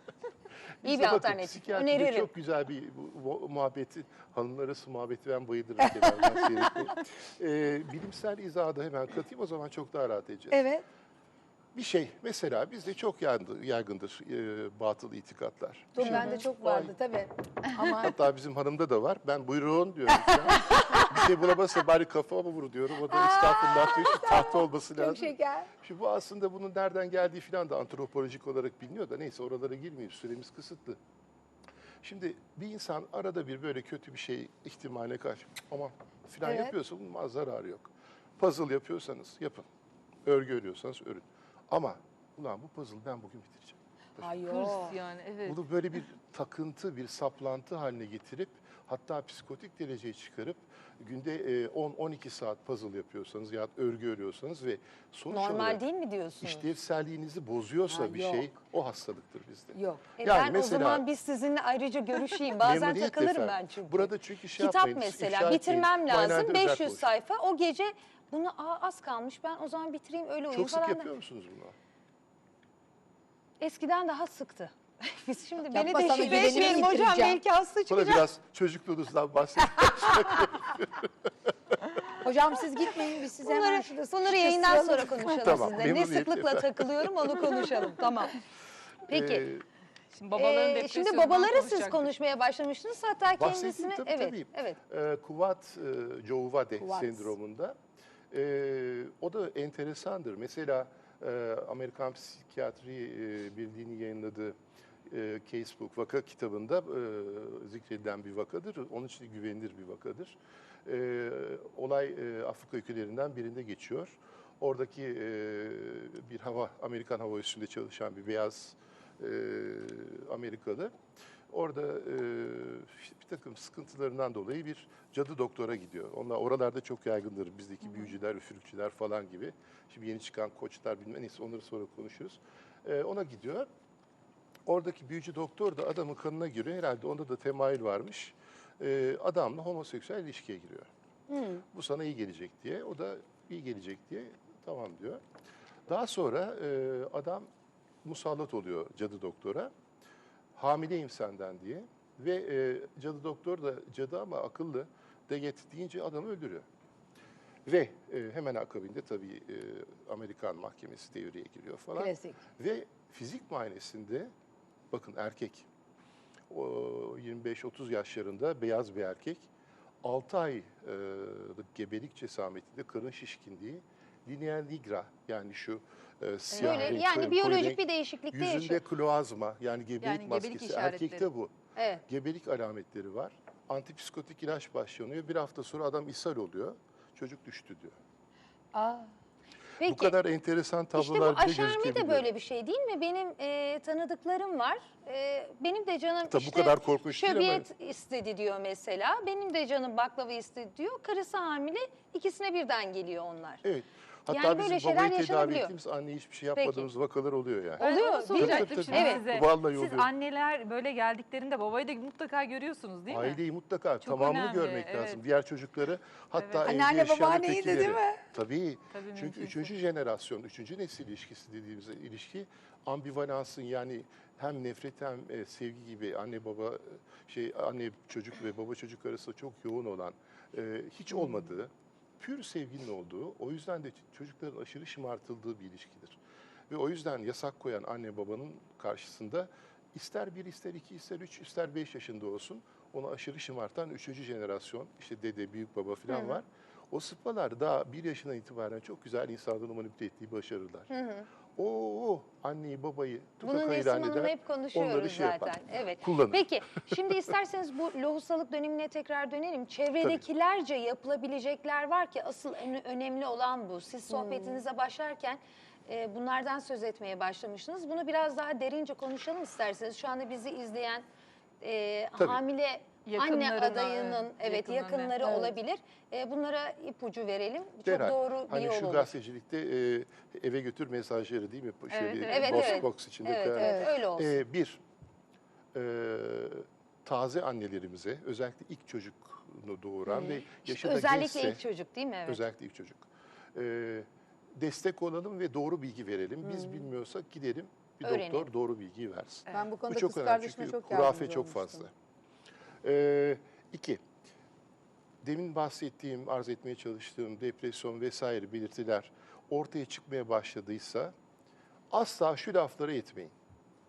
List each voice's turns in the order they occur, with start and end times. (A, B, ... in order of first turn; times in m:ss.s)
0:00.8-0:10.6 A
0:00.8-0:02.3 B
0:05.9-0:06.9 C
0:10.5-0:10.8 C
0:11.8-0:17.0 A
0:16.0-0:18.2 C
0:16.0-0:16.4 D
0:18.0-0:31.0 A
0:20.2-0:21.1 C
0:23.1-0:25.7 C
0:32.0-0:39.7 A
0:36.4-0:36.7 C
0:40.2-0:44.4 A
0:44.2-0:45.0 C
0:44.5-0:45.6 D
0:45.4-0:55.8 A
0:55.3-0:56.7 B
0:56.4-1:01.1 A
0:57.9-0:58.5 C
0:59.8-1:00.1 C
1:00.2-1:11.1 B
1:02.6-1:07.1 A
1:10.5-1:11.8 A
1:13.6-1:18.3 B
1:15.7-1:17.4 C
1:17.9-1:21.1 A
1:22.2-1:25.4 C
1:23.4-1:28.4 B
1:25.4-1:27.5 A
1:29.1-1:29.5 B
1:29.1-1:29.6 A
1:30.2-1:32.1 D
1:30.3-1:34.8 B
1:33.3-1:37.8 A
1:36.8-1:37.3 C
1:38.3-1:44.6 A
1:45.1-2:00.9 A
2:01.5-2:13.7 A
2:14.7-2:20.9 A
2:21.3-2:21.6 C
2:21.7-2:25.2 A
2:25.9-2:27.5 A
2:28.0-2:29.7 A
2:30.6-2:36.6 A
2:37.7-2:44.3 A
2:42.0-2:42.4 C
2:44.9-2:45.7 A
2:46.5-2:49.5 A
2:50.0-3:01.6 A
2:56.5-2:58.8 B
3:00.0-3:01.3 D
3:01.8-3:02.0 B
3:02.1-3:08.0 A
3:08.7-3:09.1 C
3:09.8-3:10.2 B
3:09.8-3:12.3 A
3:11.0-3:23.6 B
3:16.3-3:17.7 A
3:23.6-3:30.1 A
3:24.3-3:25.7 B
3:26.6-3:26.9 B
3:27.8-3:33.4 D
3:27.8-3:29.3 B
3:33.1-3:56.2 A
3:34.0-3:35.2 D
3:36.4-3:36.7 D
3:36.6-3:38.2 C
3:38.9-3:39.7 D
3:56.7-4:10.9 A
4:06.1-4:06.4 B
4:10.9-4:11.3 B
4:11.6-4:17.3 A
4:13.4-4:31.0 B
4:24.1-4:24.6 C
4:31.6-4:39.1 B
4:33.0-4:35.2 D
4:35.2-4:35.5 C
4:37.8-4:44.8 A
4:41.9-4:42.9 D
4:42.3-4:44.4 B
4:43.6-4:43.9 C
4:45.7-4:51.6 A
4:50.1-4:50.4 C
4:50.6-4:52.4 B
4:52.3-5:01.9 A
4:56.5-4:56.8 C
4:58.0-4:58.5 B
4:59.5-5:01.8 C
5:02.8-5:04.0 A
5:05.2-5:11.1 A
5:11.9-5:13.3 A